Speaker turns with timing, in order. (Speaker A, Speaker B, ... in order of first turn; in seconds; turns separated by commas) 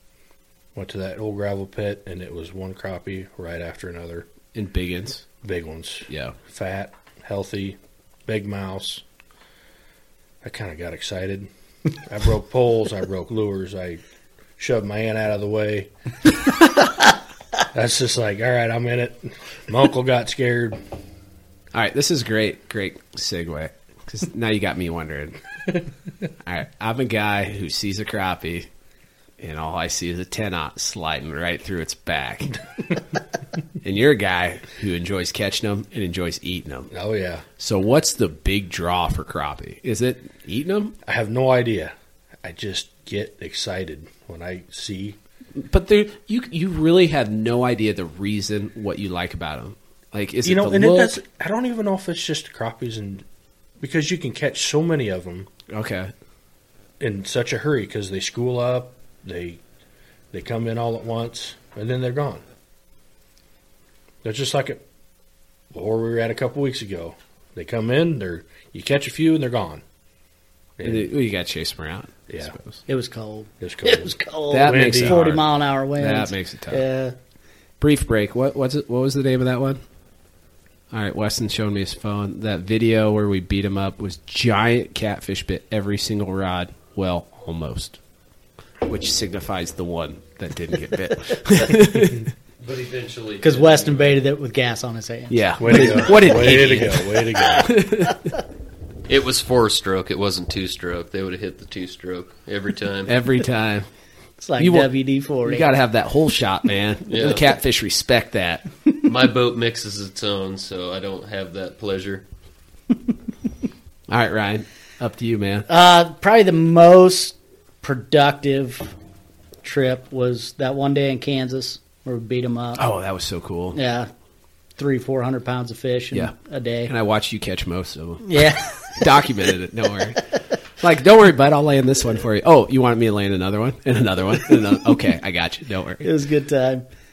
Speaker A: 0.8-4.3, Speaker B: 4.5-5.3, Speaker A: 5.4-9.0, Speaker B: 6.1-6.4, Speaker A: 10.4-11.5, Speaker A: 12.0-14.0, Speaker A: 14.6-15.9, Speaker A: 17.7-20.8, Speaker B: 21.7-25.4, Speaker B: 26.4-28.7, Speaker B: 29.4-32.6, Speaker B: 33.8-36.9, Speaker A: 36.9-37.5, Speaker B: 37.6-41.0, Speaker A: 41.1-45.2, Speaker B: 45.6-51.2, Speaker A: 50.5-53.2, Speaker A: 53.8-55.5, Speaker B: 55.7-56.1, Speaker A: 57.0-59.6, Speaker A: 60.3-62.4, Speaker A: 64.2-64.8, Speaker A: 65.7-69.8, Speaker A: 70.8-71.1, Speaker B: 70.8-72.8, Speaker A: 72.3-72.5, Speaker C: 72.9-77.2, Speaker A: 73.6-75.4, Speaker B: 74.5-76.8, Speaker B: 77.8-79.8, Speaker B: 80.9-88.0, Speaker B: 88.8-92.3, Speaker D: 92.6-94.2, Speaker C: 93.4-96.2, Speaker B: 95.3-98.3, Speaker A: 95.6-97.8, Speaker D: 99.1-103.2, Speaker B: 103.1-103.9, Speaker C: 104.4-105.7, Speaker B: 104.6-104.9, Speaker B: 105.4-108.7, Speaker D: 107.1-107.5, Speaker D: 109.0-112.2, Speaker B: 114.1-115.7, Speaker C: 115.7-118.9, Speaker C: 119.6-122.8, Speaker B: 122.8-123.8, Speaker C: 123.7-124.1, Speaker C: 124.8-126.9, Speaker B: 126.9-130.2, Speaker C: 128.2-129.0, Speaker B: 130.8-136.1, Speaker C: 136.0-136.8